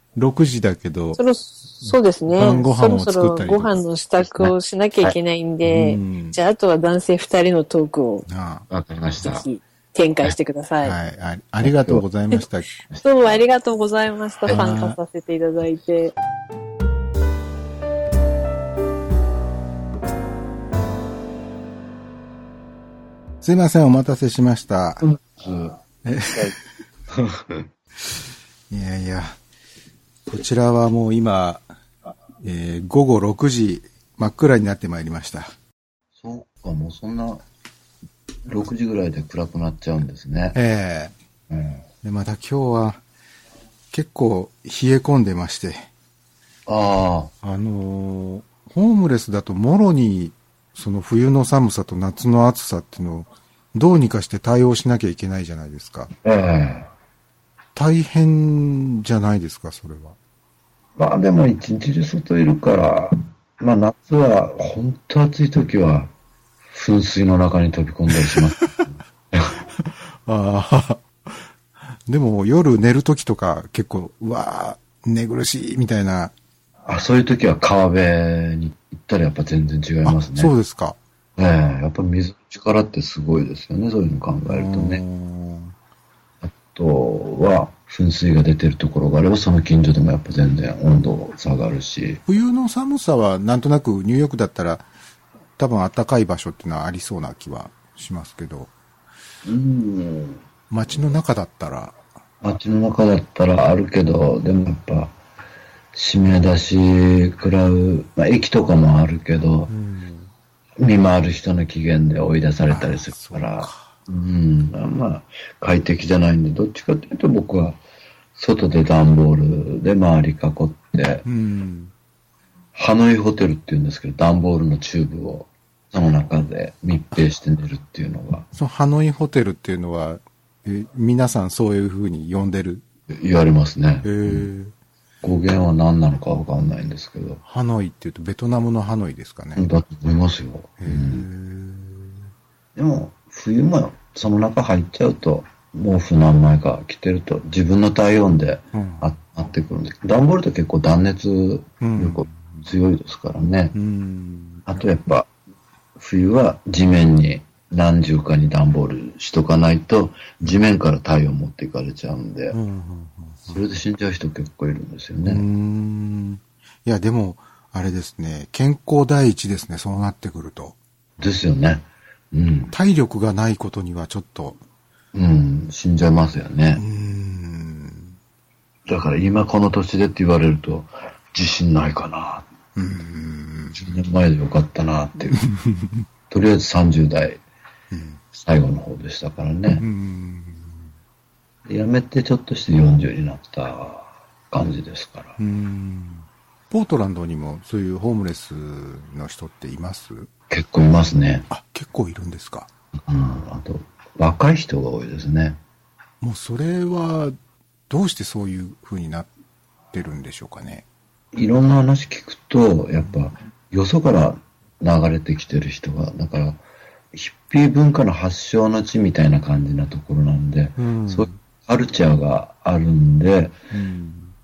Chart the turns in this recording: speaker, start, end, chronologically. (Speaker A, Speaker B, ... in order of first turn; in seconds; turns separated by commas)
Speaker A: 0.1-1.2, Speaker B: 1.1-8.3, Speaker A: 1.8-3.8, Speaker C: 4.2-5.2, Speaker A: 5.6-6.4, Speaker A: 8.3-8.7, Speaker C: 8.7-9.4, Speaker B: 9.2-10.9, Speaker A: 10.8-12.8, Speaker C: 11.6-12.0, Speaker C: 12.9-13.4, Speaker B: 13.0-16.1, Speaker A: 14.5-15.0, Speaker A: 23.4-25.0, Speaker C: 25.0-25.8, Speaker A: 26.0-26.5, Speaker C: 27.1-27.7, Speaker A: 28.7-29.4, Speaker A: 30.3-31.7, Speaker A: 32.4-35.5, Speaker C: 36.2-37.4, Speaker C: 38.5-40.6, Speaker A: 40.5-41.1, Speaker C: 41.5-41.8, Speaker A: 42.0-43.0, Speaker A: 43.9-45.8, Speaker C: 46.7-47.3, Speaker A: 47.4-56.1, Speaker C: 56.2-56.9, Speaker A: 57.7-60.2, Speaker C: 61.0-66.1, Speaker C: 66.7-69.5, Speaker A: 68.1-68.7, Speaker A: 69.8-71.4, Speaker A: 72.0-76.3, Speaker C: 76.9-80.5, Speaker A: 80.0-81.0, Speaker C: 81.4-85.0, Speaker A: 84.5-85.7, Speaker C: 86.4-92.2, Speaker A: 92.3-94.9, Speaker A: 95.6-98.7, Speaker C: 99.4-100.4, Speaker A: 100.7-102.0, Speaker C: 102.4-105.1, Speaker C: 105.9-109.7, Speaker A: 109.7-110.3, Speaker C: 110.8-117.8, Speaker A: 112.7-113.9, Speaker C: 118.3-121.2, Speaker A: 121.2-121.9, Speaker C: 122.7-128.5, Speaker A: 128.5-132.8, Speaker C: 133.1-134.5, Speaker A: 134.0-134.7, Speaker C: 135.2-137.4, Speaker A: 137.4-139.7, Speaker C: 139.6-141.2, Speaker A: 140.8-142.2, Speaker C: 142.8-153.7, Speaker A: 148.7-149.0, Speaker A: 151.8-152.7, Speaker A: 153.7-154.8, Speaker C: 154.7-155.3, Speaker C: 155.9-162.6, Speaker A: 162.5-163.6, Speaker C: 163.5-165.4, Speaker A: 165.2-170.8, Speaker C: 171.2-172.7, Speaker A: 172.7-174.6, Speaker C: 175.1-176.8, Speaker A: 176.8-178.1, Speaker C: 178.9-182.5, Speaker A: 182.8-183.8, Speaker C: 183.7-185.4, Speaker A: 185.3-186.1, Speaker C: 186.3-187.4, Speaker A: 187.9-188.2, Speaker C: 188.3-189.8, Speaker A: 189.8-190.9, Speaker C: 191.7-195.4, Speaker A: 195.4-200.3, Speaker C: 200.5-201.5, Speaker A: 201.5-202.7, Speaker C: 203.0-205.6, Speaker A: 206.2-207.3, Speaker A: 207.9-209.3, Speaker A: 209.9-210.8, Speaker C: 211.3-223.5, Speaker A: 220.8-221.4, Speaker A: 223.7-224.3